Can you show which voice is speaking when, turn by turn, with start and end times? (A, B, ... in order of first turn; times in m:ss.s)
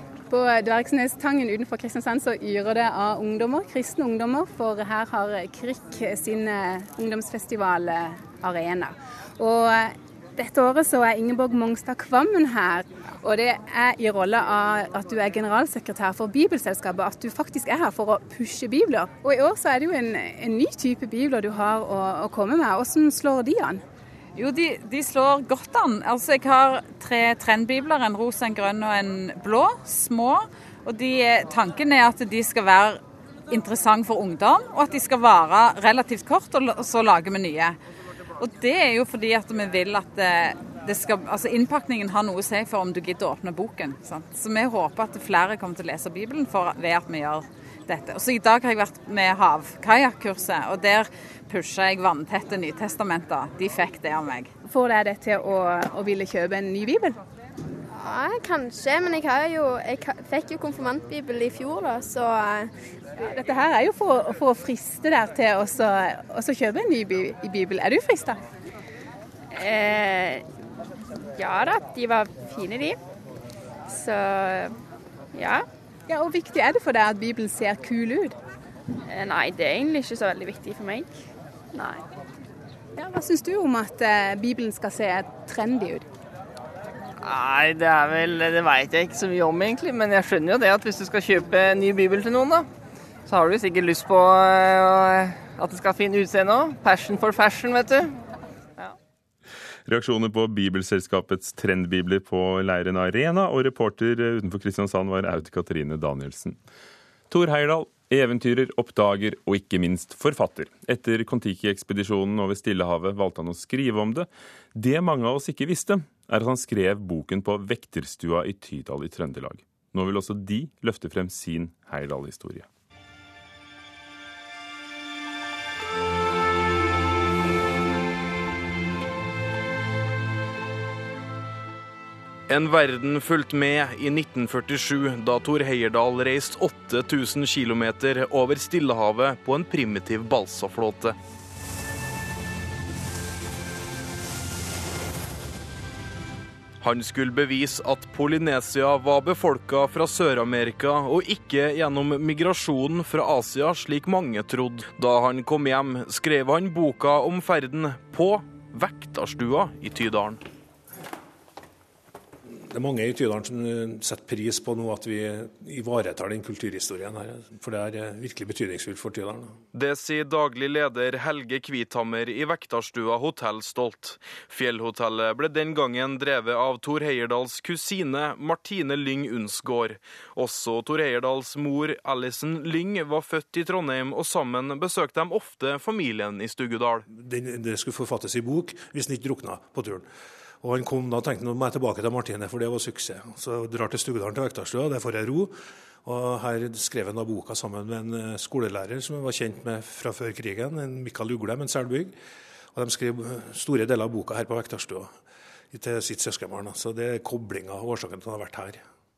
0:00.3-0:23.8 A
0:24.3-0:37.8 B
0:38.4-0:54.5 B
0:54.6-0:57.2 A
0:58.0-1:02.7 C
1:03.2-1:08.4 A
1:09.6-1:10.4 C
1:11.4-1:12.9 C
1:16.1-1:18.4 A
1:19.7-1:21.1 C
1:23.0-1:26.1 A
1:27.2-1:32.7 D
1:33.3-1:38.1 D
1:39.8-1:46.6 E
1:47.3-2:02.7 E
2:12.5-2:21.2 F
2:26.8-2:40.4 F
2:42.6-2:49.5 G
2:49.7-3:07.0 F
3:07.1-3:10.0 G
3:10.6-3:22.1 G
3:22.7-3:25.1 G
3:25.7-3:28.8 G